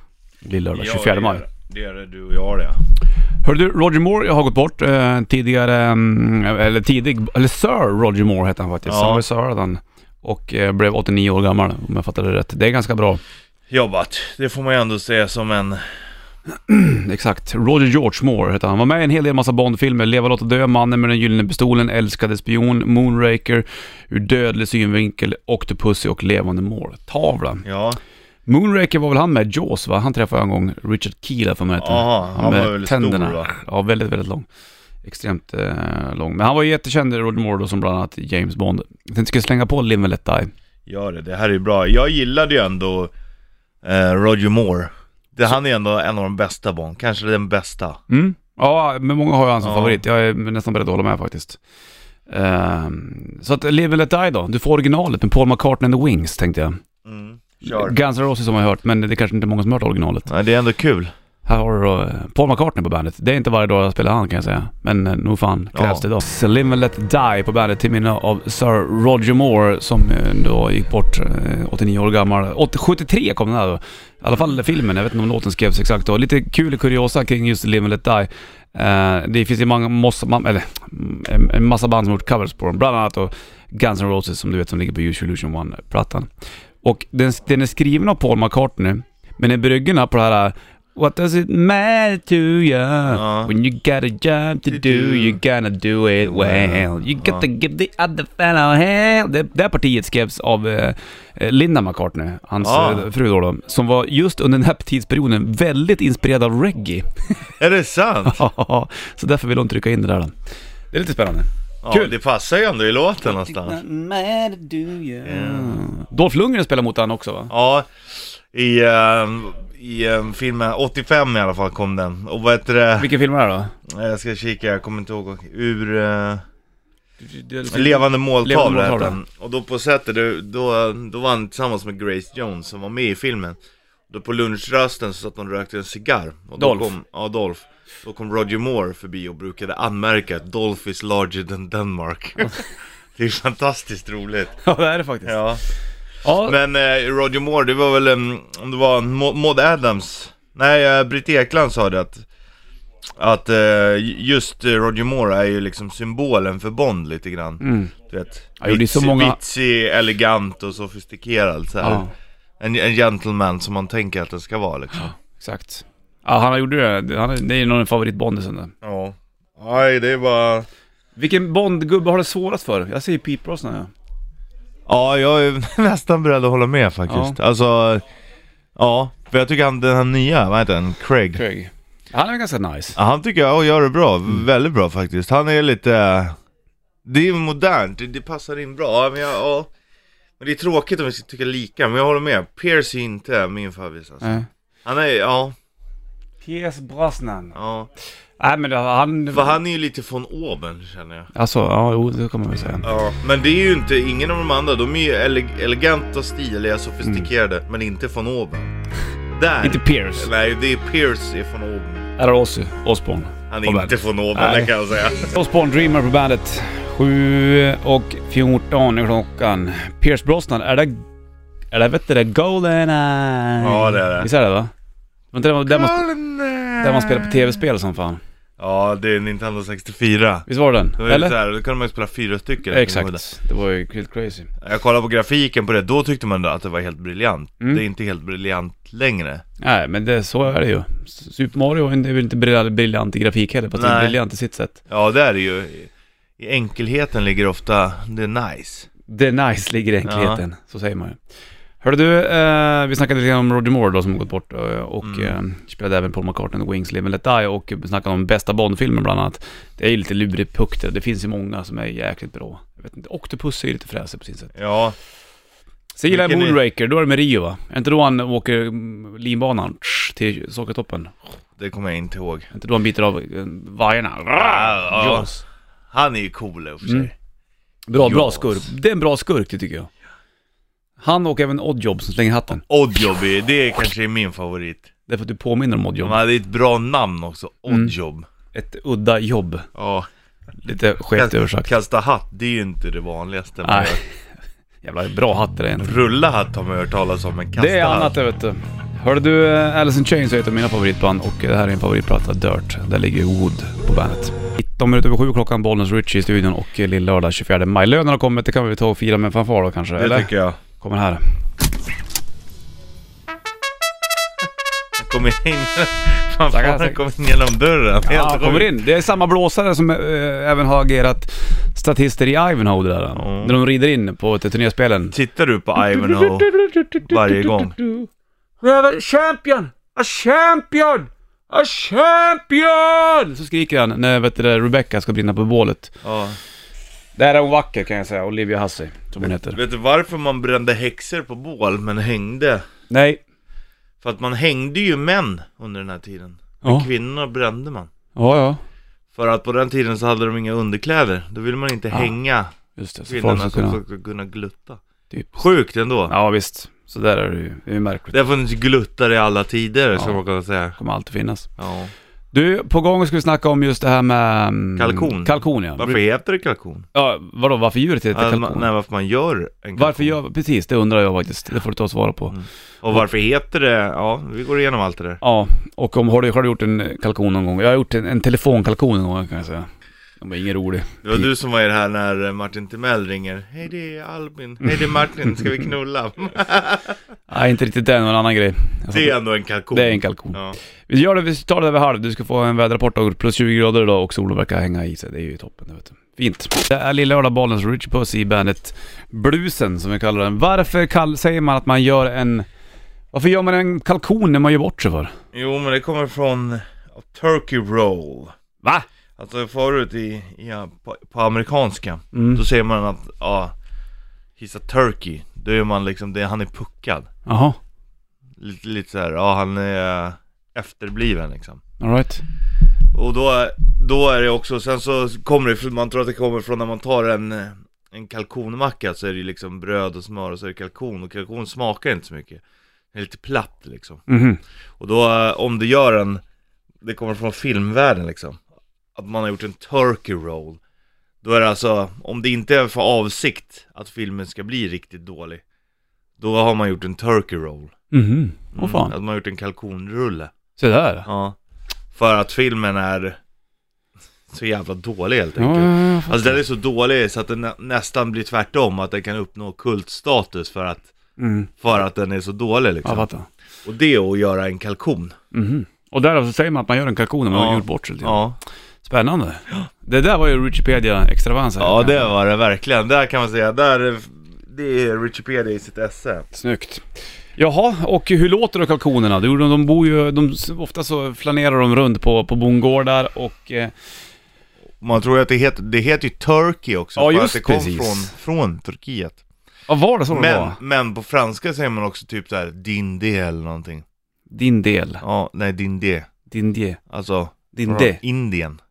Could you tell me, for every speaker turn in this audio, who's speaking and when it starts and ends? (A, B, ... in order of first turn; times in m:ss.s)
0:00.4-0:01.4 A
0:00.7-0:02.8 B
0:03.4-0:13.2 A
0:08.9-0:09.2 B
0:13.7-0:15.9 B
0:16.7-0:27.6 A
0:27.6-0:28.0 B
0:28.5-0:34.5 A
0:31.8-0:33.5 B
0:35.0-0:40.5 A
0:40.9-0:43.1 B
0:43.8-0:48.0 B
0:48.1-0:51.6 A
0:49.6-0:50.0 B
0:52.3-0:56.8 A
0:57.1-0:58.0 B
0:57.6-1:00.3 A
1:00.3-1:01.1 B
1:01.5-1:26.3 A
1:05.7-1:06.0 B
1:26.8-1:47.3 A
1:33.1-1:33.5 B
1:34.7-1:35.4 B
1:36.2-1:37.4 B
1:42.6-1:43.1 B
1:47.6-1:48.4 B
1:48.3-1:50.4 A
1:50.9-1:52.1 A
1:51.8-1:53.8 B
1:53.2-1:57.5 A
1:55.2-1:55.8 B
1:57.5-2:03.1 B
2:03.0-2:03.7 A
2:03.9-2:06.4 B
2:07.2-2:09.2 A
2:07.7-2:13.6 B
2:14.1-2:24.6 B
2:16.6-2:16.9 A
2:24.6-2:25.4 A
2:25.3-2:25.6 B
2:26.2-2:26.6 A
2:26.4-2:32.2 B
2:33.2-2:42.1 B
2:37.6-2:37.9 A
2:38.6-2:39.4 A
2:41.8-2:42.1 A
2:42.6-2:45.1 B
2:45.0-2:48.7 A
2:48.8-2:50.7 B
2:51.2-2:53.9 A
2:54.9-2:58.0 B
2:57.1-2:57.4 A
2:58.8-3:01.4 B
3:01.4-3:03.0 A
3:03.0-3:06.4 B
3:07.1-3:09.7 B
3:10.4-3:15.6 B
3:16.4-3:17.6 A
3:17.5-3:17.9 B
3:18.4-3:19.6 A
3:19.3-3:21.3 B
3:21.3-3:22.9 A
3:22.8-3:28.7 B
3:29.3-3:32.1 B
3:29.6-3:30.3 A
3:32.2-3:41.0 A
3:33.5-3:35.4 B
3:41.7-3:44.7 A
3:43.6-3:44.3 B
3:45.3-3:46.0 A
3:45.7-3:47.4 B
3:46.8-3:48.2 A
3:48.6-3:50.5 B
3:50.5-3:51.4 A
3:51.0-3:53.2 B
3:52.7-3:54.5 A
3:54.6-3:59.4 B
3:59.6-4:04.8 A
4:03.8-4:04.2 B
4:04.9-4:08.9 B
4:09.1-4:11.2 A
4:10.1-4:10.4 B
4:11.8-4:24.5 A
4:15.0-4:15.4 B
4:24.6-4:25.0 B
4:26.0-4:31.1 A
4:26.1-4:26.6 B
4:31.6-4:32.5 B
4:32.5-4:35.4 A
4:34.4-4:35.3 B
4:35.9-4:37.1 B
4:37.9-4:39.9 A
4:38.0-4:38.7 B
4:41.0-4:42.6 A
4:42.7-4:44.9 B
4:45.1-4:46.2 A
4:46.0-4:48.3 B
4:48.5-4:49.7 A
4:49.8-4:50.1 B
4:50.6-4:51.7 A
4:51.2-4:54.0 B
4:53.7-4:54.0 A
4:54.8-4:56.0 A
4:55.8-4:58.2 B
4:57.6-5:11.2 A
5:10.0-5:10.6 B
5:15.0-5:18.7 B
5:16.5-5:17.0 A
5:18.0-5:25.2 A
5:23.2-5:23.6 B
5:25.1-5:26.5 B
5:25.9-5:28.1 A
5:27.1-5:27.8 B
5:28.6-5:35.9 A
5:36.0-5:36.4 B
5:37.2-5:39.6 A
5:39.2-5:42.6 B
5:42.9-5:43.2 A
5:44.0-5:47.9 B
5:48.2-5:48.6 A
5:49.2-5:52.5 B
5:52.8-5:53.8 A
5:53.1-5:54.8 B
5:55.1-5:55.4 A
5:55.4-5:56.1 B
5:56.1-5:58.2 A
5:58.1-6:00.8 B
6:00.8-6:01.5 A
6:01.6-6:01.9 B
6:02.3-6:06.0 A
6:04.8-6:06.9 B
6:07.0-6:08.7 A
6:08.1-6:10.2 B
6:09.8-6:12.3 A
6:12.3-6:15.2 B
6:15.2-6:19.7 A
6:20.2-6:21.3 A
6:21.0-6:27.0 B
6:27.3-6:29.2 A
6:28.9-6:30.6 B
6:29.7-6:30.4 A
6:30.9-6:42.5 A
6:43.1-6:45.1 A
6:45.3-6:48.3 B
6:49.2-6:53.5 B
6:52.1-6:52.4 A
6:54.4-6:57.1 B
6:57.3-6:57.6 A
6:58.4-7:01.6 B
7:01.8-7:02.2 A
7:02.9-7:12.4 B
7:12.9-7:14.0 B
7:14.1-7:14.4 A
7:14.8-7:16.2 B
7:16.8-7:18.4 B
7:19.0-7:20.6 B
7:21.2-7:25.4 B
7:26.2-7:27.8 B
7:27.9-7:28.9 A
7:28.5-7:30.3 B
7:30.6-7:31.1 A
7:31.1-7:31.4 B
7:32.0-7:33.2 B
7:34.3-7:40.9 B
7:35.4-7:36.4 A
7:41.2-7:41.5 A
7:41.6-7:43.1 B
7:42.8-7:43.3 A
7:43.6-7:45.2 B
7:45.3-7:48.2 A
7:47.3-7:48.4 B
7:48.8-7:52.1 A
7:51.6-7:56.3 B
7:56.3-7:56.8 A
7:57.4-8:03.7 A
8:04.8-8:09.2 B
8:07.0-8:08.1 A
8:09.7-8:10.6 A
8:10.1-8:13.8 B
8:14.3-8:15.0 A
8:15.0-8:16.1 B
8:16.3-8:16.8 A
8:16.9-8:18.6 B
8:17.5-8:18.0 A